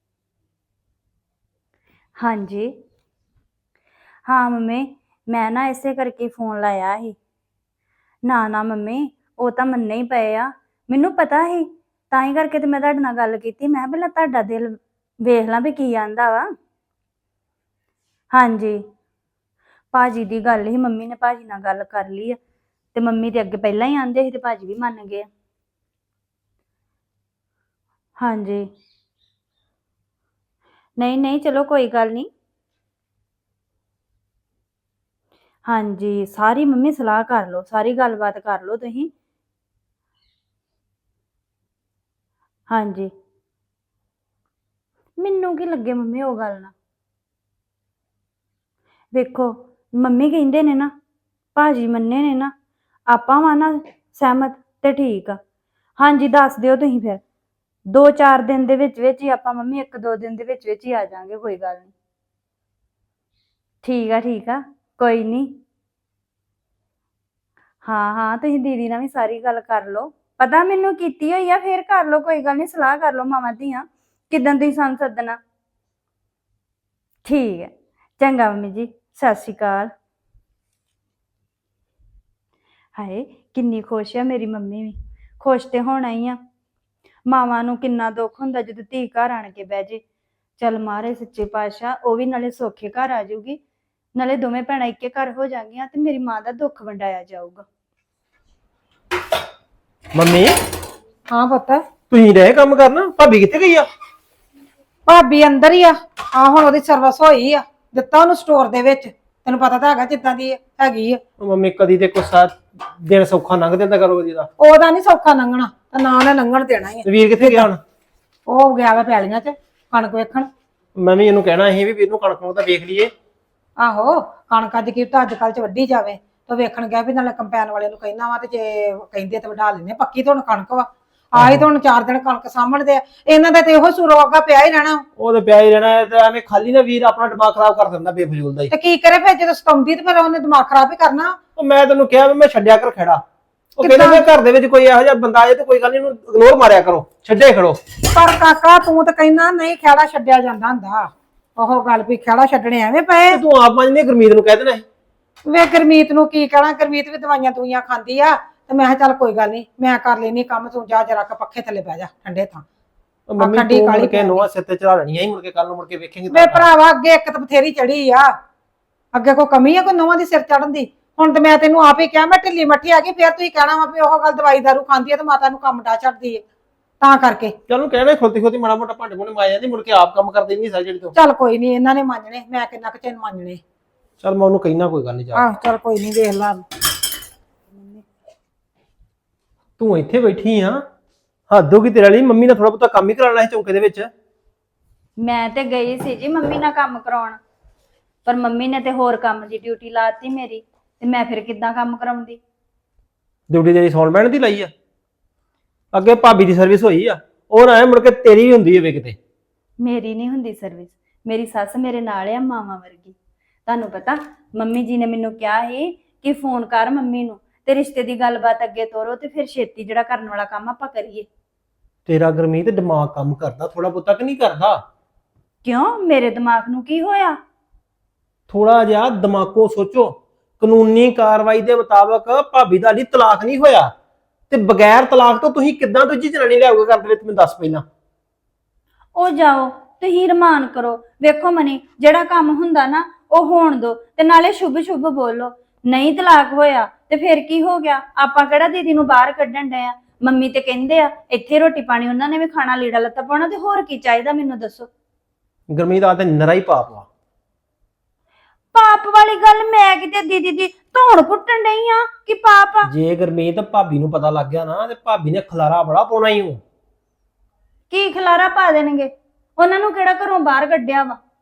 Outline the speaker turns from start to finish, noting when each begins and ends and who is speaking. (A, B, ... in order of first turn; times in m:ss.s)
0:02.2-0:02.7 A
0:04.2-0:07.2 A
0:08.2-0:16.5 A
0:18.3-0:18.8 A
0:19.9-0:22.4 A
0:22.9-0:25.3 A
0:28.2-0:28.7 A
0:31.0-0:32.3 A
0:35.6-0:39.1 A
0:42.7-0:43.1 A
0:45.2-0:46.7 A
0:49.1-0:50.9 A
0:51.5-0:52.5 A
0:53.1-0:55.4 A
0:56.0-0:57.2 A
0:57.9-1:01.9 A
1:03.8-1:05.6 A
1:07.8-1:15.4 A
1:17.2-1:19.9 A
1:22.9-1:26.4 A
1:27.3-1:30.0 A
1:30.6-1:33.6 A
1:34.2-1:37.6 A
1:40.1-1:40.5 B
1:41.3-1:41.8 C
1:42.1-1:43.9 B
1:45.1-1:51.2 C
1:51.4-1:54.5 B
1:54.6-1:57.7 C
1:57.0-1:57.8 B
1:58.5-2:00.5 C
2:01.0-2:03.1 B
2:03.8-2:15.0 C
2:11.4-2:11.7 B
2:15.2-2:18.7 B
2:18.7-2:21.4 C
2:21.6-2:23.2 B
2:23.8-2:27.8 B
2:23.8-2:24.2 C
2:28.0-2:33.4 C
2:33.3-2:34.8 B
2:35.4-2:42.6 C
2:43.3-2:46.7 B
2:43.4-2:44.5 C
2:46.3-2:48.3 C
2:49.1-2:56.4 C
2:57.0-2:57.6 C
2:57.7-3:01.1 B
3:01.1-3:03.6 C
3:04.2-3:05.4 B
3:05.3-3:06.6 C
3:09.8-3:10.8 B
3:11.5-3:14.1 B
3:15.2-3:17.4 A
3:18.2-3:22.4 A
3:23.5-3:24.7 B
3:25.9-3:29.2 B
3:29.8-3:41.3 A
3:42.1-3:44.8 B
3:45.6-3:47.4 A
3:48.5-3:53.9 B
3:54.5-3:57.8 B
3:59.1-4:14.9 A
4:15.7-4:17.1 B
4:18.7-4:22.9 A
4:22.8-4:26.6 B
4:27.9-4:31.2 A